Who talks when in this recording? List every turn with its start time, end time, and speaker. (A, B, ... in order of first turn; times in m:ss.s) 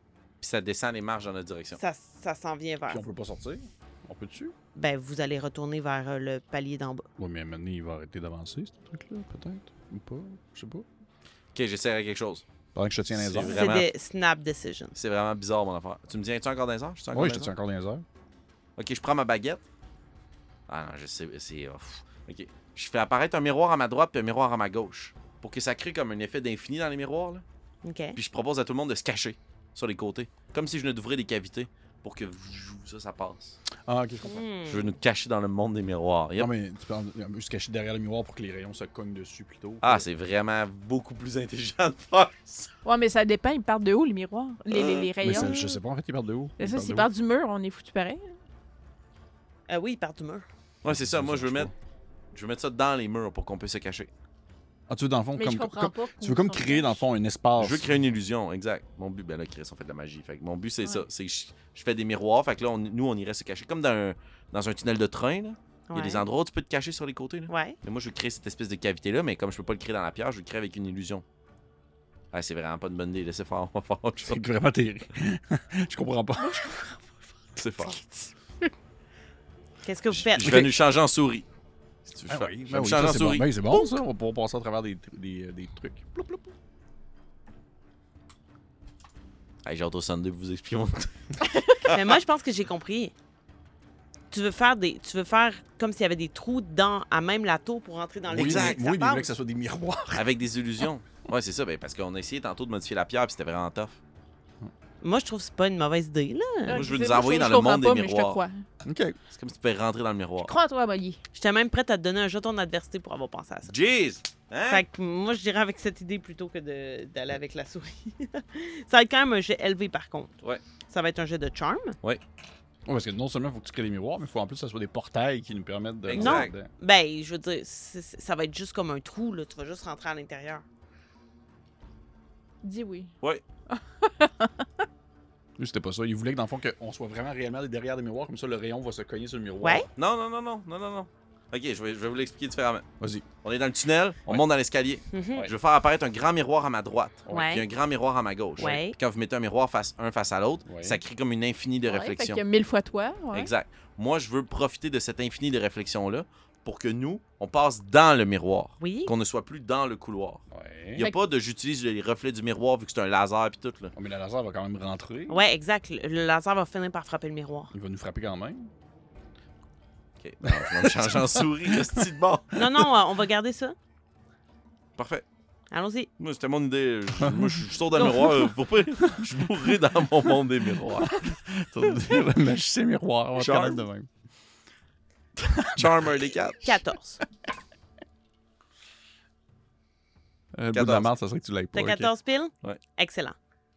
0:00.4-0:01.8 A
0:01.8-0:03.0 B
0:02.9-0:04.5 C
0:04.7-0:07.1 B
0:07.2-0:10.8 C
0:11.5-0:12.4 A
0:12.7-0:13.6 C
0:13.1-0:13.9 A
0:13.4-0:14.9 B
0:14.9-0:17.5 A
0:17.1-0:18.0 C
0:18.8-0:19.6 A
0:20.7-0:27.4 A
0:27.8-0:28.2 B
0:28.1-0:33.6 A
0:33.7-0:34.4 C
0:34.2-0:34.9 B
0:34.7-0:36.5 A
0:36.4-0:40.1 C
0:39.8-0:42.7 A
0:42.8-0:45.8 D
0:44.7-0:45.6 A
0:45.2-0:47.1 C
0:46.6-0:48.4 D
0:49.7-0:50.4 B
0:50.8-0:51.7 A
0:50.8-0:51.7 C
0:52.3-0:54.1 A
0:54.9-0:58.0 C
0:55.4-0:57.0 D
0:57.6-1:11.2 A
1:05.9-1:06.2 B
1:07.5-1:07.8 B
1:12.3-1:14.4 A
1:14.2-1:16.6 C
1:16.4-1:17.0 D
1:17.6-1:18.0 A
1:17.9-1:18.3 D
1:19.8-1:20.7 B
1:20.1-1:21.4 A
1:20.4-1:20.7 C
1:22.0-1:23.5 A
1:22.3-1:26.5 C
1:29.6-1:32.0 A
1:31.9-1:33.1 B
1:34.3-1:39.3 B
1:38.3-1:40.3 C
1:38.3-1:38.8 A
1:40.1-1:44.0 A
1:45.0-1:46.8 B
1:46.6-1:48.6 D
1:46.7-1:48.4 A
1:48.8-1:49.2 C
1:49.3-1:50.5 A
1:50.4-1:51.2 D
1:51.3-1:53.7 B
1:53.7-1:54.8 A
1:54.6-2:00.3 B
2:00.8-2:02.0 B
2:02.8-2:06.7 C
2:06.0-2:06.5 A
2:06.1-2:10.6 B
2:12.6-2:13.1 D
2:13.7-2:14.8 D
2:15.6-2:19.9 C
2:19.6-2:19.9 B
2:20.0-2:22.8 A
2:23.0-2:23.3 C
2:23.4-2:32.4 A
2:25.1-2:25.5 B
2:27.3-2:27.6 B
2:28.6-2:29.0 B
2:30.6-2:31.0 C
2:31.8-2:33.5 D
2:33.3-2:43.9 A
2:38.8-2:39.1 B
2:40.5-2:41.1 C
2:43.9-2:45.4 C
2:45.3-2:47.7 B
2:47.7-2:48.7 C
2:50.2-2:52.6 A
2:50.4-2:52.1 C
2:52.5-2:53.8 B
2:55.0-2:55.2 A
2:55.7-2:56.1 B
2:56.2-3:01.3 A
2:57.2-2:58.3 C
2:58.0-2:58.2 B
2:59.1-2:59.4 C
3:00.8-3:04.1 C
3:03.4-3:03.8 A
3:05.4-3:06.1 C
3:05.6-3:06.8 A
3:06.6-3:07.2 B
3:10.5-3:12.1 C
3:10.7-3:11.1 A
3:11.7-3:13.4 B